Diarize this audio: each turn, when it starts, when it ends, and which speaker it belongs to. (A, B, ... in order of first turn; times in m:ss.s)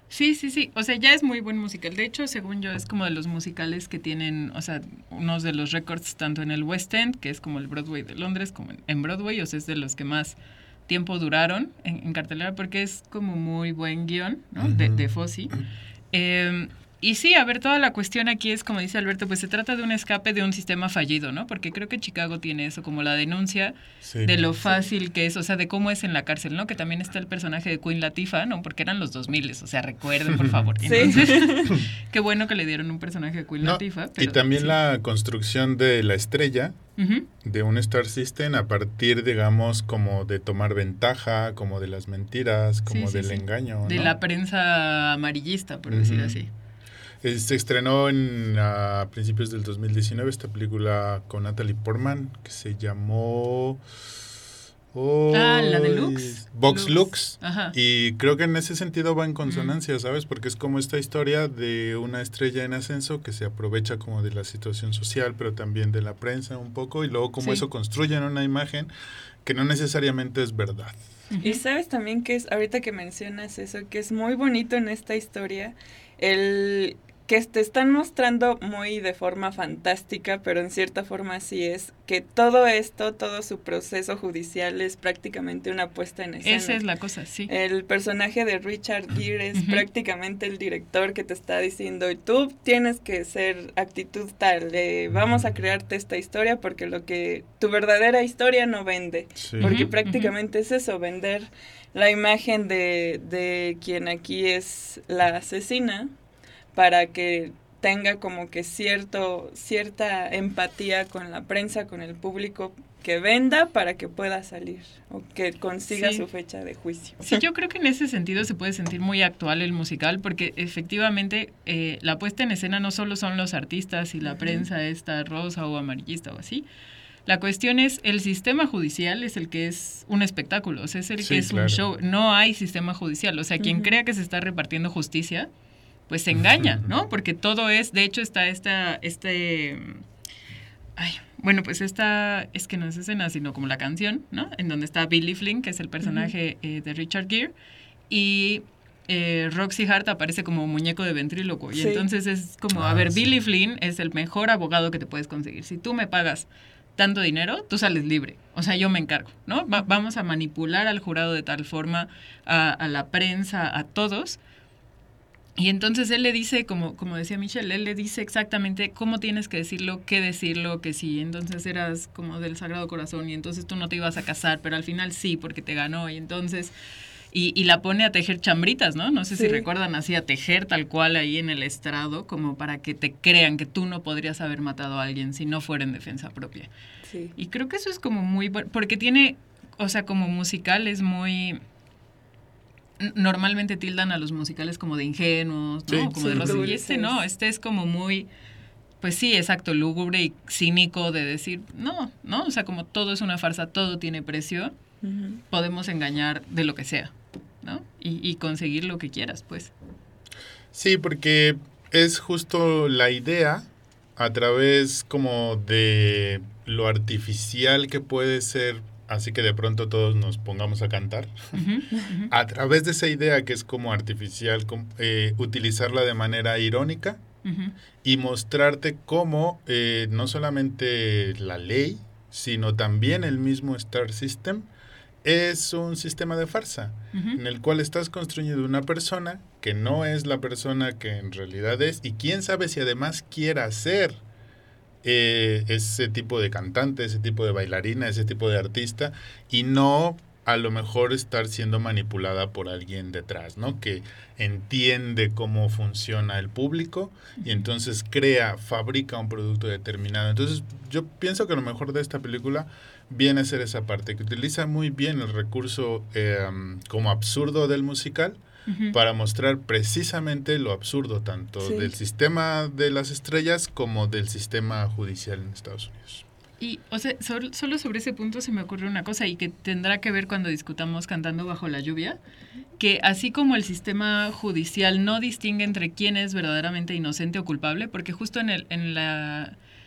0:00.1-0:10.4 A
0:10.9-0:15.6 A
0:14.6-0:15.0 B
0:16.1-0:34.8 A
0:24.0-0:24.5 B
0:30.3-0:31.1 B
0:30.8-0:31.8 C
0:33.6-0:36.8 B
0:37.0-0:37.3 A
0:37.4-0:44.1 B
0:42.9-0:46.5 A
0:45.9-0:46.4 B
0:47.2-0:53.8 B
0:54.9-1:08.9 B
0:55.3-0:57.8 A
0:59.4-0:59.8 A
1:09.4-1:11.0 B
1:11.3-1:11.6 A
1:11.4-1:26.8 C
1:26.4-1:27.5 A
1:27.5-1:46.1 C
1:29.5-1:29.8 A
1:39.4-1:39.8 B
1:39.6-1:40.3 A
1:46.7-1:57.4 C
1:55.9-1:56.2 A
1:57.2-2:06.6 A
2:04.2-2:04.7 C
2:07.2-2:15.5 A
2:11.2-2:11.8 B
2:13.6-2:13.9 C
2:16.1-2:20.0 A
2:21.0-2:27.5 A
2:26.0-2:26.3 C
2:28.1-2:44.4 A
2:31.7-2:32.0 C
2:32.7-2:33.3 B
2:45.6-2:56.7 A
2:57.3-3:06.7 A
2:59.4-2:59.7 C
3:07.1-3:07.4 C
3:07.4-3:11.6 A
3:13.0-3:18.3 A
3:15.9-3:16.6 B
3:16.2-3:17.2 C
3:19.0-3:24.8 A
3:25.0-3:25.4 C
3:25.5-3:29.7 A
3:30.7-3:41.6 B
3:41.5-3:42.3 A
3:42.3-3:47.2 B
3:47.4-3:47.8 A
3:48.0-3:54.7 B
3:55.2-4:04.2 B
3:57.1-3:57.4 A
4:05.0-4:28.4 B
4:28.7-4:29.0 A
4:28.9-4:36.2 B
4:31.6-4:31.9 C
4:36.6-4:42.2 A
4:42.8-4:49.6 A